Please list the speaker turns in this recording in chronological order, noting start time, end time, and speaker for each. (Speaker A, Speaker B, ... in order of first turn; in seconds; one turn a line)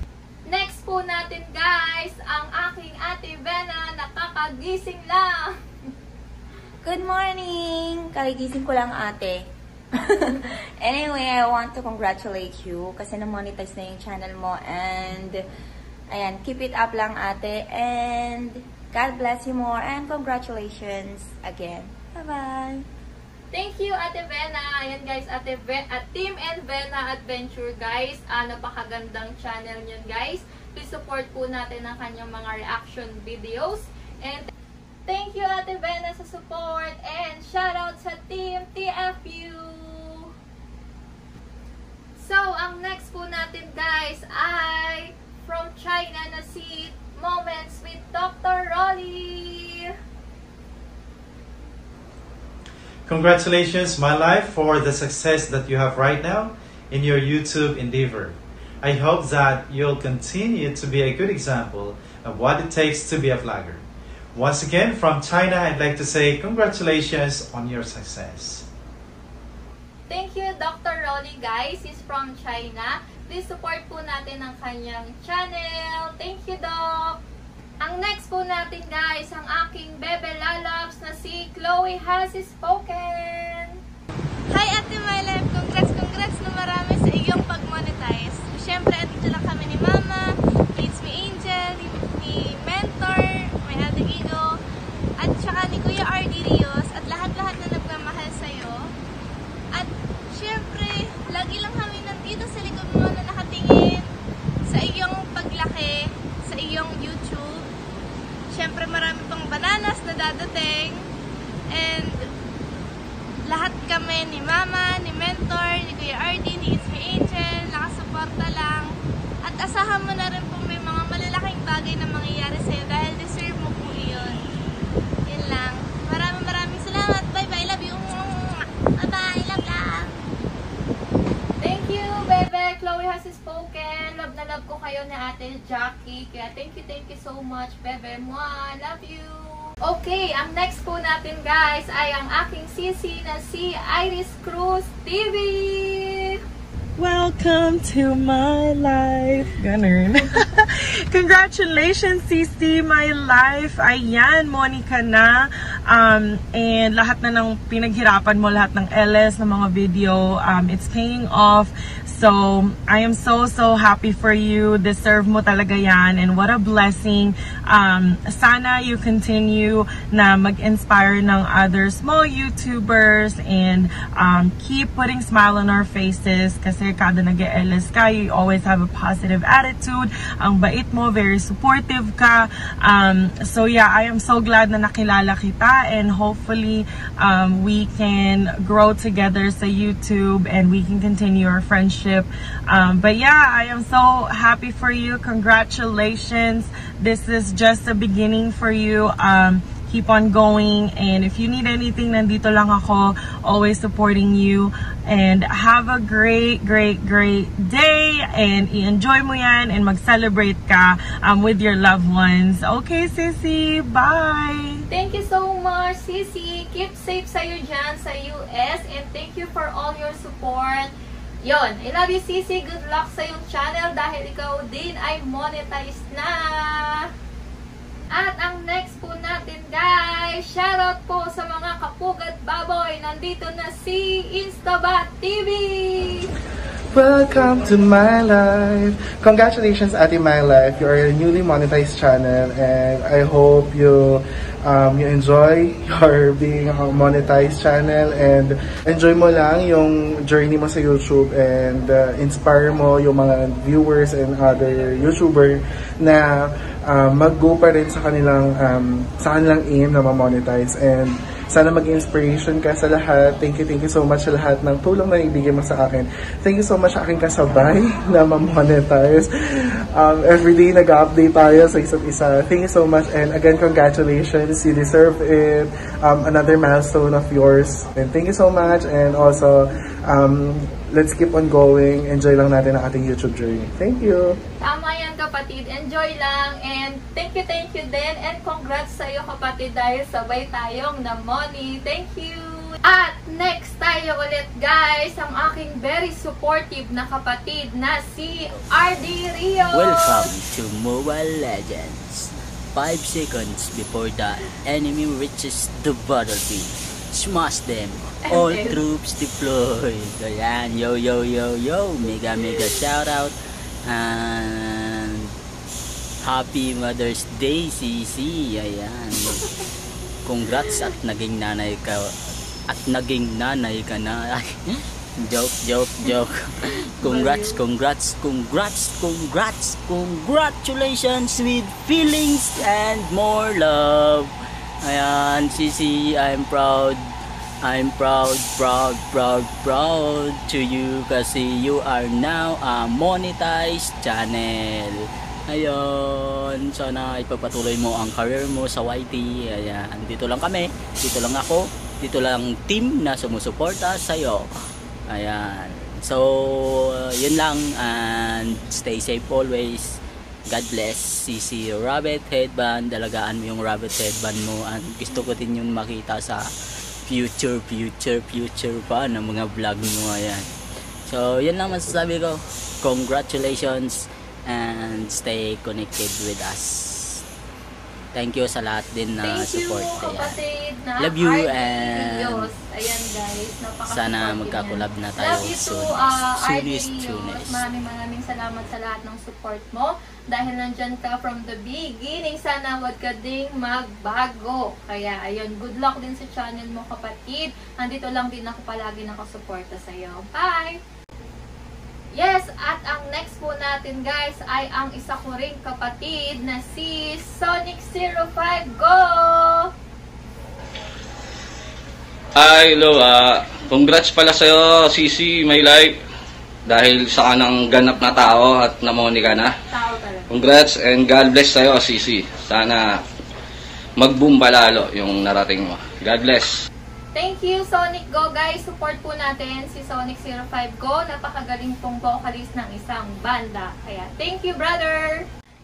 Speaker A: 0.5-5.5
Speaker B: 6.8-15.4
Speaker B: 16.1-22.9
Speaker A: 23.5-34.5
Speaker A: 35.1-40.3
Speaker A: 42.2-49.9
Speaker C: 53.1-63.8
Speaker C: 64.3-68.7
Speaker A: 70.1-77.2
Speaker A: 77.8-83.8
Speaker D: 84.5-94.6
Speaker D: 95.2-98.9
Speaker D: 99.7-104.1
Speaker D: 104.7-107.7
Speaker D: 108.5-111.1
Speaker D: 111.7-112.2
Speaker D: 113.5-118.9
Speaker D: 119.4-124.4
Speaker D: 125.3-130.2
Speaker A: 131.6-146.4
Speaker E: 147.0-214.8
Speaker A: 214.9-220.9
Speaker A: 221.4-227.1
Speaker A: 228.1-236.3
Speaker F: 236.9-284.4
Speaker A: 284.6-300.2
Speaker G: 299.7-315.3
Speaker A: 308.3-308.8
Speaker G: 316.2-319.4
Speaker G: 320.2-337.1
Speaker A: 327.1-327.5
Speaker G: 337.6-354.5
Speaker G: 355.1-360.0
Speaker G: 360.5-366.4
Speaker G: 367.1-370.5
Speaker G: 371.1-377.2
Speaker G: 378.1-380.4
Speaker A: 379.2-400.8
Speaker G: 381.0-382.5
Speaker G: 383.8-387.6
Speaker A: 402.1-409.7
Speaker H: 412.4-416.0
Speaker H: 416.7-419.5
Speaker A: 419.7-420.3
Speaker H: 420.3-422.8
Speaker H: 424.0-426.6
Speaker A: 427.1-435.3